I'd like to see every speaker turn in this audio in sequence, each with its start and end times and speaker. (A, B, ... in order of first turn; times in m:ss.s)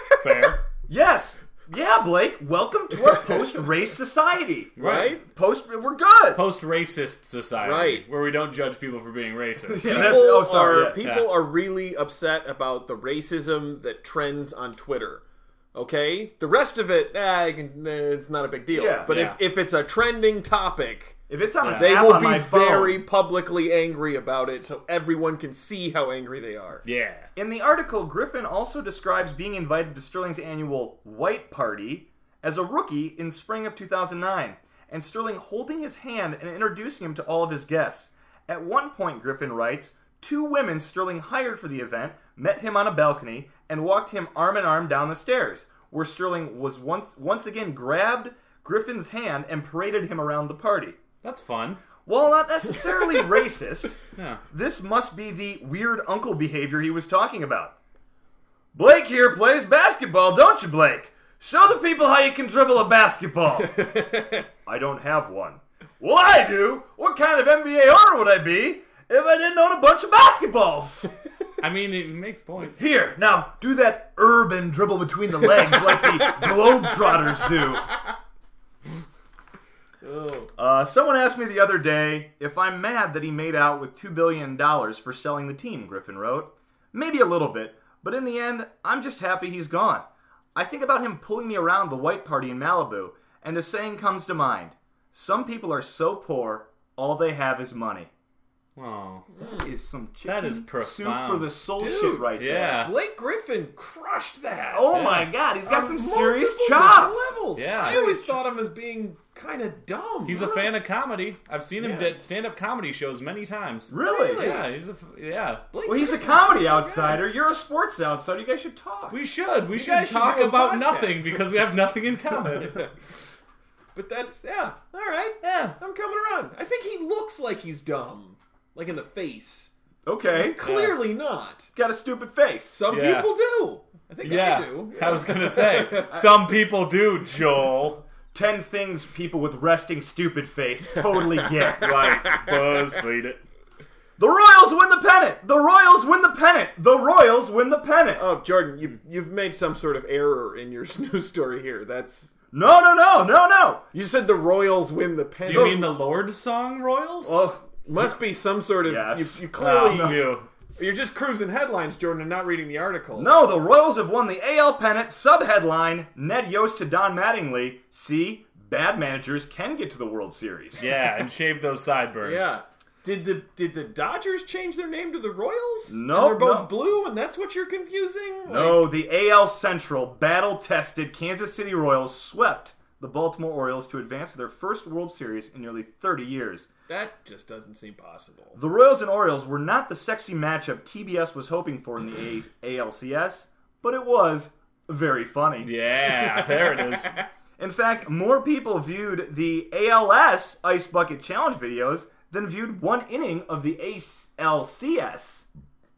0:00.2-0:00.6 A
0:00.9-0:06.4 B
0:04.8-0:05.2 A
0:04.8-0:05.2 C
0:06.3-0:11.4 A
0:07.6-0:08.0 C
0:09.7-0:11.0 B
0:09.8-0:21.2 C
0:18.7-0:19.2 B
0:19.1-0:19.4 A
0:21.3-0:23.0 B
0:21.6-0:21.9 A
0:21.7-0:26.8 C
0:26.8-0:27.3 A
0:27.4-0:51.0 B
0:51.2-0:51.8 A
0:52.0-0:54.0 B
0:54.2-0:54.4 A
0:54.5-0:57.7 B
0:58.7-1:04.0 B
1:03.8-1:04.4 C
1:04.6-1:11.1 B
1:11.6-1:12.8 A
1:12.8-1:17.9 B
1:20.0-1:20.5 C
1:20.6-1:38.1 B
1:38.8-1:39.2 A
1:39.3-1:39.7 C
1:39.4-1:42.9 B
1:40.3-1:41.5 A
1:41.8-1:44.9 C
1:42.4-1:42.9 A
1:44.7-1:48.4 B
1:44.9-1:45.3 A
1:45.6-1:50.7 C
1:47.6-1:48.0 A
1:50.2-1:55.6 A
1:51.8-1:52.2 C
1:53.9-1:54.4 B
1:54.0-1:54.6 C
1:55.7-1:57.2 C
1:55.8-1:59.2 B
1:59.1-2:02.9 A
1:59.7-2:01.4 C
2:02.6-2:02.9 C
2:03.9-2:09.7 C
2:05.4-2:05.8 A
2:10.0-2:10.6 B
2:10.3-2:11.7 C
2:10.6-2:11.0 A
2:11.7-2:12.8 B
2:12.7-2:16.2 C
2:12.9-2:13.3 A
2:14.2-2:18.0 A
2:18.3-2:22.2 B
2:21.8-2:23.4 A
2:22.3-2:22.7 C
2:24.2-2:28.3 B
2:28.2-2:32.3 C
2:32.5-2:33.8 B
2:33.9-2:35.9 C
2:35.4-2:37.4 A
2:35.5-2:35.9 B
2:37.2-2:38.1 B
2:37.8-2:43.3 C
2:38.8-2:40.2 B
2:39.5-2:40.5 A
2:43.1-2:50.8 B
2:50.8-2:52.5 A
2:52.2-2:58.9 C
2:55.9-2:56.7 B
2:58.5-3:06.7 B
3:06.9-3:08.6 C
3:08.5-3:15.7 B
3:15.6-3:17.2 A
3:16.1-3:17.2 C
3:17.6-3:25.4 B